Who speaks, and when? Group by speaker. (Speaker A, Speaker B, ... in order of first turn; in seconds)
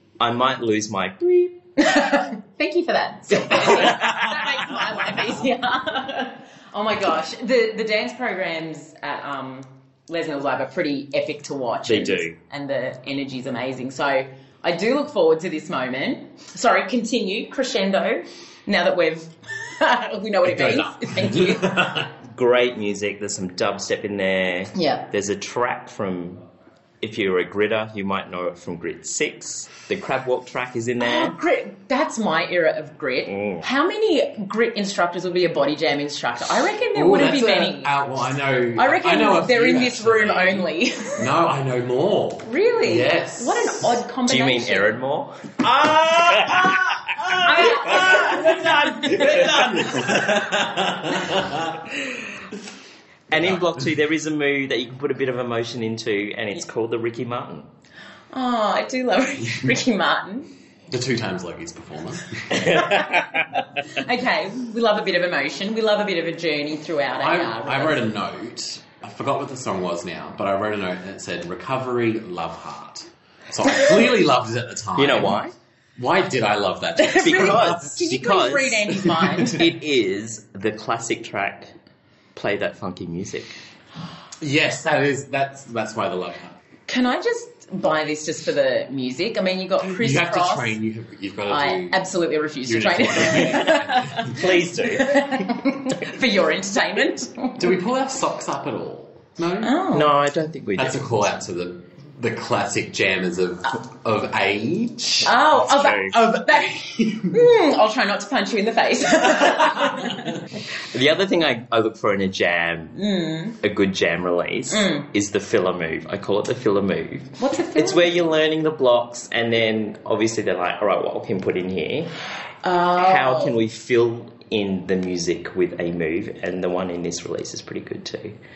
Speaker A: 0.2-1.6, 3.5-4.6, 11.9-12.3, 22.2-26.4, 27.0-31.4, 33.3-33.7, 44.2-50.3, 53.3-57.7, 75.0-75.5, 77.2-81.7, 82.3-83.5, 94.2-95.3, 99.9-101.1, 105.6-106.2, 110.9-113.0, 113.6-122.1, 123.0-128.3
Speaker B: 1.8-21.9, 24.7-25.1, 31.0-37.9, 38.8-41.3, 42.4-44.9, 47.4-49.5, 58.3-60.5, 62.6-68.0, 77.0-79.6, 86.9-90.8, 91.5-97.7, 99.6-100.1, 105.2-106.7, 107.3-110.3, 112.9-113.6, 114.7-115.1, 117.4-118.2, 122.6-123.5
Speaker C: 20.4-22.1, 36.9-43.9, 45.7-51.9, 53.3-53.7, 60.9-63.0, 67.2-75.4, 76.0-78.2, 79.0-79.7, 84.4-86.6, 89.8-92.0, 92.6-94.5, 97.6-99.7, 100.8-105.3, 106.1-107.5